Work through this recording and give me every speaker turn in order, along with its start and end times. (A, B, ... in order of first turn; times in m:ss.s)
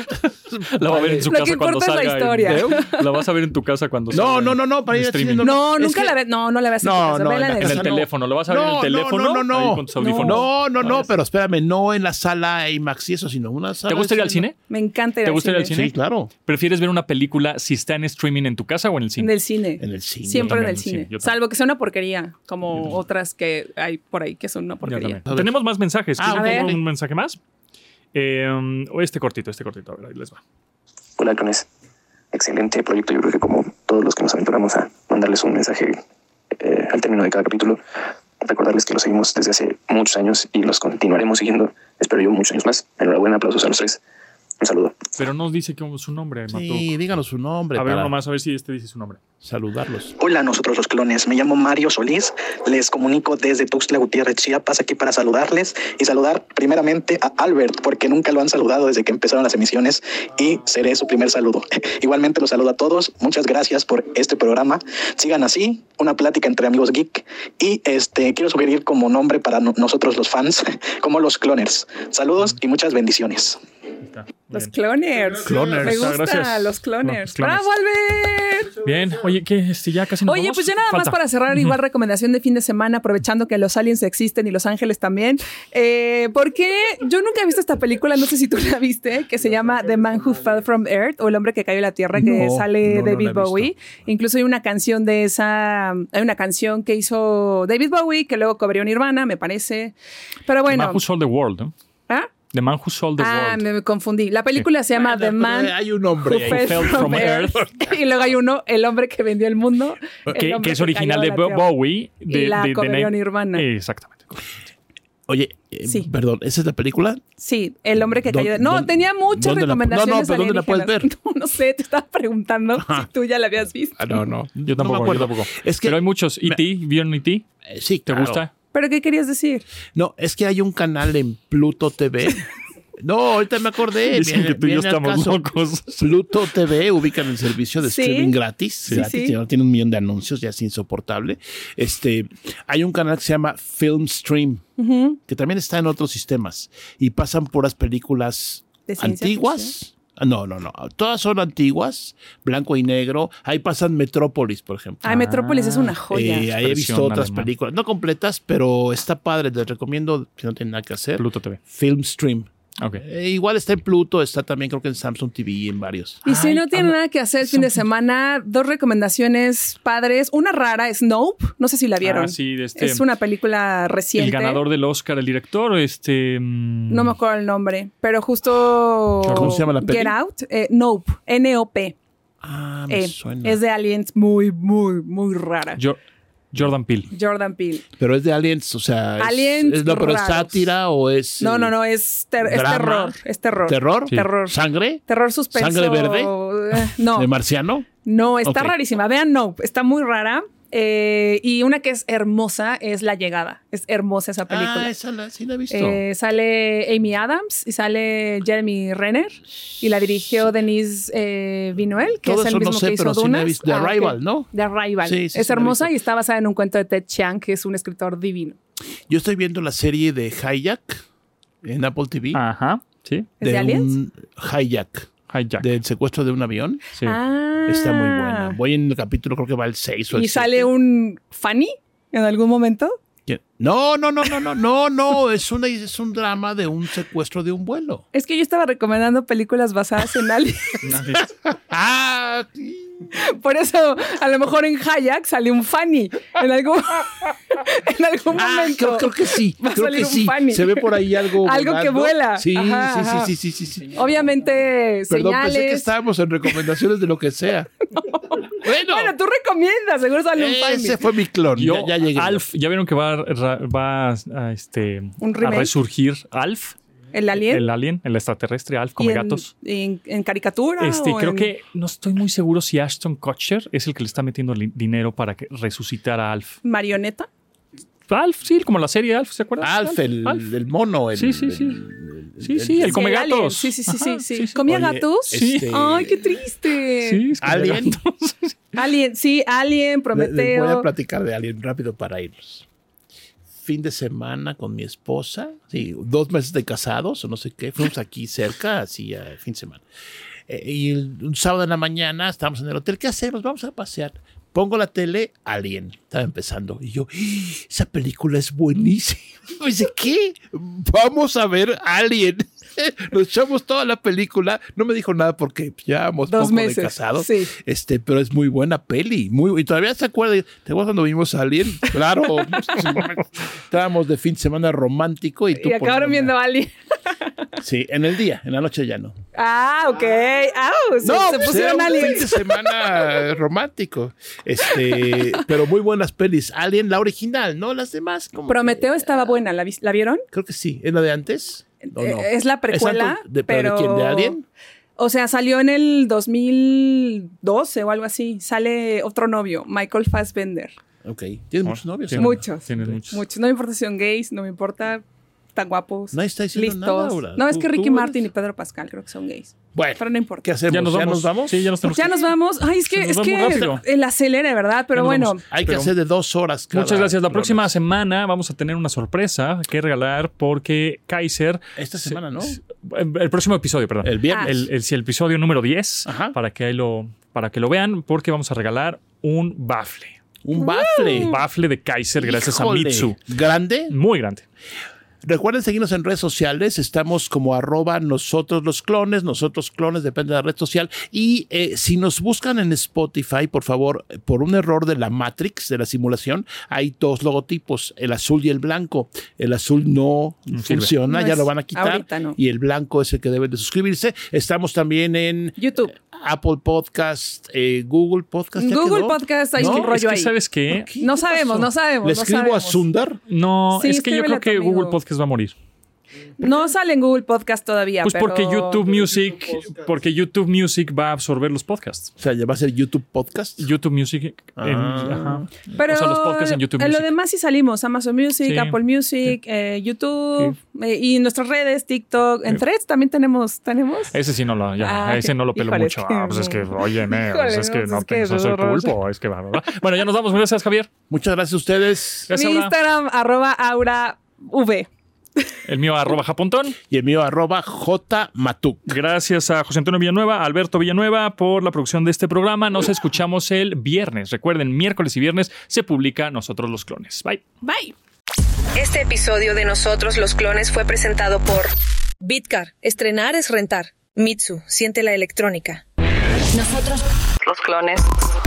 0:00.5-0:01.3 A
0:00.6-0:05.6 B
0:01.2-0:03.0 C
0:02.4-0:02.8 A
0:04.1-0:06.1 A
0:05.4-0:08.0 C
0:06.8-0:14.4 A
0:07.6-0:11.0 B
0:10.0-0:10.4 C
0:13.9-0:14.6 B
0:14.7-0:15.7 C
0:15.2-0:19.3 B
0:15.7-0:16.3 A
0:19.2-0:25.2 C
0:19.8-0:20.6 A
0:20.4-0:21.3 B
0:24.8-0:27.4 B
0:26.2-0:26.8 A
0:26.3-0:26.7 C
0:28.1-0:30.4 B
0:31.2-0:31.7 D
0:32.3-0:36.0 D
0:36.6-0:37.8 D
0:38.4-0:44.0 D
0:44.6-0:45.0 D
0:45.2-0:46.9 B
0:46.5-0:48.1 A
0:47.7-0:49.2 B
0:49.4-0:50.2 A
0:50.2-1:13.6 E
1:14.0-1:14.7 B
1:14.5-1:18.7 C
1:15.4-1:16.1 A
1:15.4-1:17.7 B
1:18.8-1:21.8 B
1:20.3-1:39.9 C
1:32.1-1:33.4 A
1:32.9-1:33.6 B
1:40.5-1:41.0 C
1:40.7-1:41.7 B
1:42.5-1:43.6 B
1:43.2-1:45.7 C
1:44.9-1:47.5 A
1:46.2-1:51.7 C
1:46.3-1:47.6 B
1:50.3-1:54.3 B
1:52.3-1:53.6 C
1:55.3-1:57.2 A
1:57.4-2:04.0 C
1:58.2-2:01.1 A
2:02.8-2:03.1 A
2:04.0-2:06.6 A
2:04.6-2:07.5 B
2:07.7-2:08.4 A
2:08.0-2:08.5 B
2:08.7-2:09.7 C
2:09.9-2:12.4 A
2:13.0-2:15.4 A
2:14.1-2:16.0 B
2:16.0-2:24.6 A
2:17.8-2:19.4 C
2:24.8-2:25.2 C
2:25.3-2:35.0 A
2:28.9-2:29.7 C
2:35.0-2:36.5 C
2:35.0-2:37.5 B
2:36.1-2:46.2 A
2:41.2-2:41.6 B
2:46.2-2:54.6 C
2:46.2-2:47.8 B
2:52.0-2:53.0 B
2:54.2-2:57.1 B
2:56.9-3:02.0 C
2:59.2-2:59.6 B
2:59.3-3:00.1 A
3:02.4-3:03.6 A
3:02.9-3:05.8 C
3:06.5-3:07.1 B
3:07.1-3:07.8 C
3:08.0-3:11.7 A
3:09.2-3:10.7 C
3:11.4-3:14.5 C
3:12.4-3:16.3 A
3:15.1-3:17.3 C
3:17.0-3:17.9 A
3:18.0-3:24.9 C
3:18.4-3:18.7 A
3:24.5-3:26.0 A
3:25.7-3:38.6 C
3:32.2-3:34.5 A
3:35.0-3:35.9 A
3:39.1-3:41.0 A
3:41.6-3:42.4 A
3:42.3-3:43.3 B
3:43.4-3:43.9 C
3:43.4-3:46.8 A
3:45.3-3:45.7 B
3:47.0-3:48.6 C
3:47.6-3:50.7 A
3:50.1-3:53.0 C
3:53.2-3:58.0 A
3:58.1-4:00.8 C
4:00.8-4:01.3 B
4:01.4-4:03.1 A
4:03.1-4:13.3 C
4:08.3-4:14.1 A
4:13.9-4:15.9 C
4:15.1-4:17.7 A
4:17.9-4:21.0 C
4:18.4-4:19.1 A
4:20.3-4:22.4 A
4:21.6-4:26.7 B
4:25.2-4:25.7 C
4:27.1-4:27.6 C
4:27.3-4:29.5 B
4:29.0-4:31.5 C
4:30.8-4:36.6 B
4:36.6-4:37.3 C
4:38.1-4:40.5 B
4:39.6-4:43.0 A
4:41.2-4:41.8 B
4:42.4-4:44.6 B
4:42.8-4:47.3 C
4:44.6-4:46.2 A
4:45.3-4:45.7 B
4:47.0-4:48.6 B
4:47.4-4:48.0 A
4:48.7-4:50.9 C
4:50.1-4:52.6 A
4:53.6-4:59.8 A
5:00.5-5:26.3 A
5:16.3-5:17.5 C
5:25.5-5:27.5 C
5:27.6-5:29.1 A
5:29.3-5:32.7 C
5:31.0-5:39.2 A
5:34.9-5:35.4 C
5:38.5-5:40.2 C
5:40.3-5:44.4 A
5:41.8-5:44.4 C
5:45.0-5:50.7 C
5:51.0-5:53.0 A
5:51.6-5:53.2 B
5:52.2-5:55.0 C
5:55.5-6:00.4 C
5:56.1-5:58.3 A
5:59.7-6:01.6 A
6:00.7-6:03.8 B
6:01.8-6:05.4 C
6:04.9-6:05.9 B
6:05.5-6:07.7 A
6:06.7-6:20.2 B
6:11.8-6:12.6 A
6:14.0-6:14.7 A
6:16.0-6:16.4 A
6:20.4-6:21.4 A
6:20.6-6:21.4 C
6:21.0-6:23.2 B
6:22.2-6:23.9 A
6:23.9-6:24.4 B
6:25.2-6:49.9 A
6:40.5-6:40.9 B
6:41.1-6:42.4 C
6:45.6-6:45.9 C
6:48.6-6:50.3 C
6:49.6-6:51.5 B
6:50.7-6:53.2 A
6:51.0-6:52.8 C
6:53.3-6:55.5 B
6:53.7-6:55.0 C
6:56.4-6:58.8 C
6:58.0-7:02.1 B
7:02.2-7:03.7 A
7:03.6-7:07.1 B
7:04.6-7:05.5 A
7:05.7-7:14.2 C
7:08.4-7:09.4 B
7:14.1-7:20.9 B
7:14.8-7:19.0 C
7:21.1-7:22.3 A
7:22.3-7:22.7 B
7:22.3-7:25.5 C
7:25.6-7:26.8 B
7:26.8-7:29.0 A
7:28.9-7:37.4 B
7:37.6-7:37.9 C
7:38.8-7:41.7 F
7:42.2-7:45.8 F
7:46.5-7:48.1 F